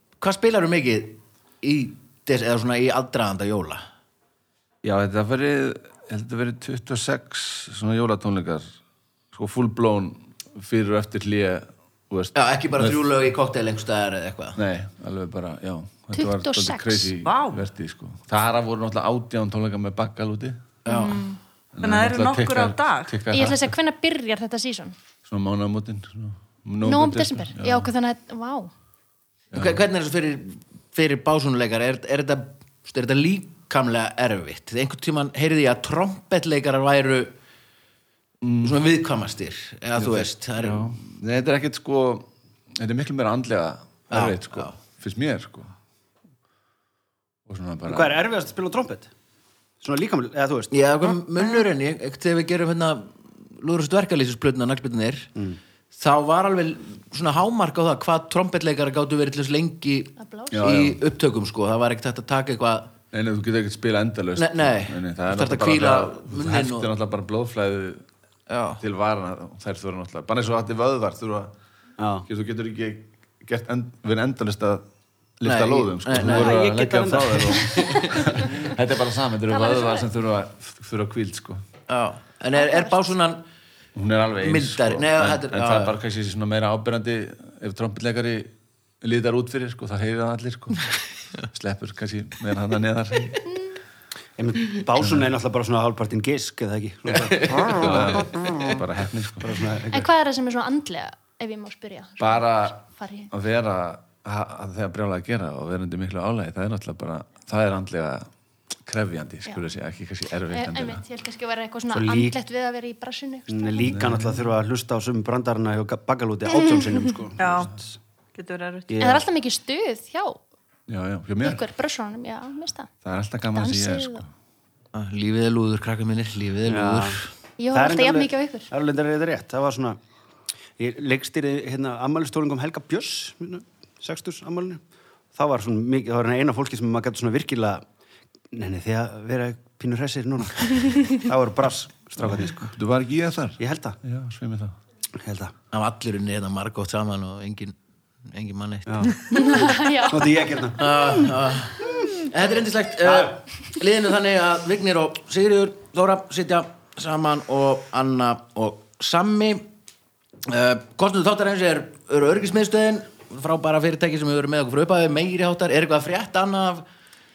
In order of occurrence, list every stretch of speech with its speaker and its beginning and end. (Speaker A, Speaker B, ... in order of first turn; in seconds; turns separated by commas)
Speaker A: 0.2-3.9, Speaker B: 4.8-8.7, Speaker B: 9.3-13.0, Speaker A: 12.3-14.6, Speaker B: 14.6-20.7, Speaker C: 16.1-17.1, Speaker D: 17.2-17.6, Speaker A: 20.9-21.2, Speaker C: 20.9-21.4, Speaker B: 21.8-23.8, Speaker D: 21.8-23.1, Speaker C: 23.3-24.9, Speaker B: 25.2-27.9, Speaker C: 26.8-28.7, Speaker B: 29.5-29.8, Speaker A: 29.5-37.3, Speaker B: 38.4-38.8, Speaker A: 38.6-41.0, Speaker B: 40.0-45.7, Speaker A: 44.1-44.7, Speaker B: 47.5-48.2, Speaker E: 47.9-49.1, Speaker E: 49.8-50.7, Speaker A: 50.7-55.3, Speaker A: 55.9-62.9, Speaker C: 60.2-60.6, Speaker B: 60.5-61.0, Speaker B: 63.1-68.0, Speaker A: 64.4-66.9, Speaker A: 68.5-68.8, Speaker B: 68.8-71.5, Speaker E: 72.0-72.3, Speaker B: 72.2-74.8, Speaker B: 75.4-81.6, Speaker A: 75.4-76.6, Speaker E: 76.2-78.0, Speaker A: 77.7-78.1, Speaker C: 79.5-80.0, Speaker A: 81.9-83.4, Speaker C: 82.5-83.0, Speaker B: 84.0-90.9, Speaker A: 84.4-86.0, Speaker B: 91.5-93.4, Speaker E: 94.4-98.5, Speaker A: 97.4-98.6, Speaker B: 97.5-99.7, Speaker E: 99.4-100.1, Speaker C: 99.9-103.3, Speaker B: 102.2-108.3, Speaker B: 108.8-111.0, Speaker C: 110.5-114.0, Speaker E: 111.9-112.4, Speaker E: 113.5-118.0, Speaker B: 113.8-114.5, Speaker D: 117.4-117.7, Speaker D: 118.3-119.0, Speaker E: 118.9-119.2, Speaker C: 119.0-120.4, Speaker B: 120.9-121.6, Speaker C: 121.4-122.9, Speaker B: 123.0-124.3, Speaker C: 123.5-124.2, Speaker A: 124.9-127.3, Speaker E: 126.7-127.2, Speaker C: 127.6-128.7, Speaker E: 127.7-130.0, Speaker E: 130.8-134.8, Speaker E: 135.3-137.8, Speaker E: 138.5-142.7, Speaker B: 142.2-144.8, Speaker E: 143.6-144.0, Speaker E: 145.2-145.5, Speaker A: 145.7-147.8, Speaker A: 148.3-149.6, Speaker E: 148.9-151.3, Speaker C: 149.3-150.6, Speaker A: 150.8-159.7, Speaker E: 153.0-153.3, Speaker A: 160.5-166.8